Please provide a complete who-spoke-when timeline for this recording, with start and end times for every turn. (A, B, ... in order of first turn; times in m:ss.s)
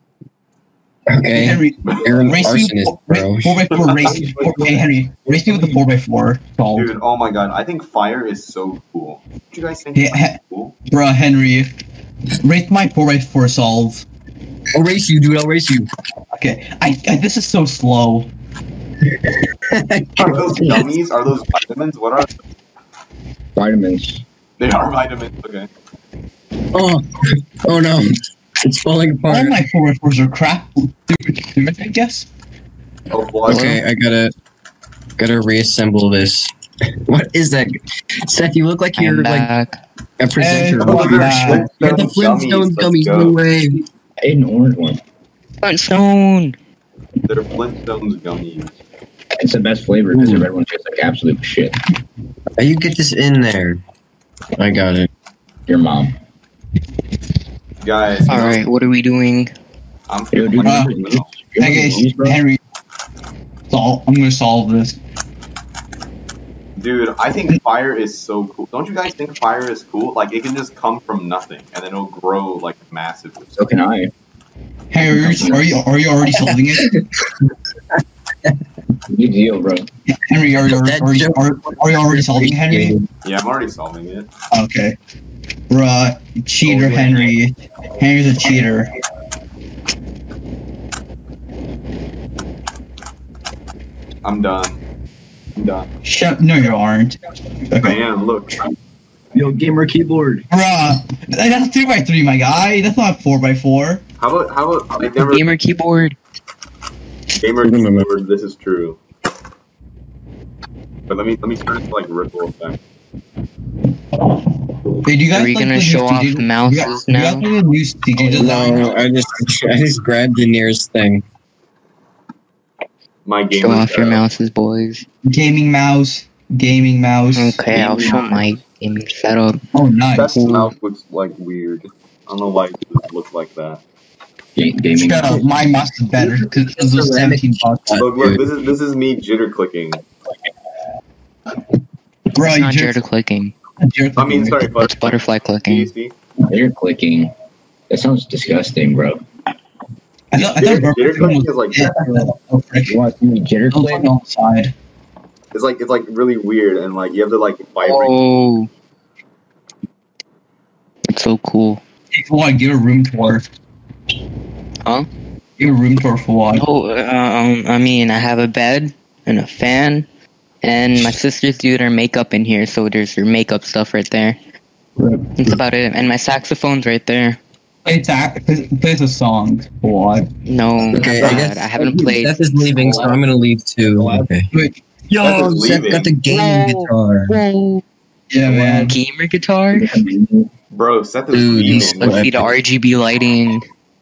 0:01.1-0:03.7 A
0:01.3-0:06.9 B
0:01.8-0:02.5 C
0:03.8-0:04.7 C
0:04.0-0:04.9 D
0:06.8-0:10.7 C
0:10.0-0:10.4 B
0:10.9-0:11.7 B
0:12.4-0:14.1 B
0:14.7-0:15.9 A
0:16.3-0:18.3 B
0:19.7-0:20.9 A
0:20.2-0:22.3 C
0:23.6-0:24.2 D
0:24.6-0:25.7 C
0:26.7-0:29.6 A
0:29.3-0:32.3 B
0:33.1-0:33.8 C
0:33.5-0:33.8 E
0:33.5-0:34.3 A
0:35.2-0:36.5 A
0:37.1-0:39.5 A
0:39.0-0:39.8 E
0:40.2-0:43.8 A
0:40.4-0:41.7 B
0:40.8-0:43.4 C
0:44.2-0:45.0 D
0:45.6-0:46.6 E
0:47.3-0:48.8 C
0:49.4-0:51.8 D
0:50.1-0:50.5 A
0:52.6-0:53.8 A
0:54.6-0:55.1 A
0:55.7-0:56.2 D
0:57.8-0:58.6 C
0:58.3-0:59.5 E
1:00.1-1:01.3 C
1:00.3-1:02.4 D
1:00.6-1:00.9 B
1:01.6-1:02.6 B
1:03.7-1:05.0 B
1:06.8-1:13.5 C
1:13.6-1:14.1 D
1:14.9-1:16.9 B
1:15.0-1:15.8 D
1:19.1-1:19.9 D
1:20.1-1:23.0 B
1:20.7-1:23.1 A
1:23.2-1:24.3 C
1:24.5-1:25.0 B
1:25.7-1:28.9 B
1:26.7-1:27.3 C
1:34.2-1:34.8 C
1:35.6-1:35.9 C
1:36.0-1:38.0 B
1:37.8-1:38.6 C
1:39.3-1:40.5 D
1:40.5-1:44.0 B
1:44.2-1:45.5 C
1:45.1-1:46.2 E
1:47.4-1:49.0 C
1:47.6-1:48.1 A
1:51.1-1:52.8 C
1:55.0-1:58.9 B
1:55.3-1:57.5 E
1:58.4-2:01.2 A
2:03.2-2:04.2 C
2:03.6-2:05.0 E
2:05.2-2:07.6 B
2:07.4-2:09.6 E
2:07.7-2:08.5 D
2:09.7-2:10.7 B
2:10.2-2:13.8 C
2:14.6-2:15.5 D
2:14.9-2:18.0 B
2:16.2-2:18.4 A
2:18.0-2:20.0 C
2:22.4-2:23.0 B
2:22.4-2:23.5 E
2:23.8-2:24.7 B
2:24.2-2:26.2 C
2:24.8-2:25.9 E
2:26.5-2:27.3 D
2:27.9-2:29.2 D
2:30.3-2:33.0 B
2:30.4-2:32.3 C
2:32.9-2:34.1 D
2:33.7-2:34.7 B
2:35.5-2:38.2 C
2:37.8-2:38.7 E
2:41.1-2:41.8 E
2:42.1-2:43.5 B
2:45.6-2:46.7 B
2:46.5-2:50.1 E
2:50.6-2:54.4 E
2:55.0-2:55.3 B
2:55.4-2:57.4 E
2:57.8-3:00.3 B
3:00.5-3:03.2 E
3:00.9-3:04.5 A
3:04.0-3:04.3 D
3:04.5-3:04.8 B
3:05.1-3:07.4 A
3:05.2-3:06.1 C
3:06.2-3:07.8 E
3:08.3-3:09.0 B
3:08.7-3:10.0 E
3:09.7-3:10.5 D
3:10.7-3:12.5 C
3:11.3-3:12.5 A
3:11.8-3:13.6 E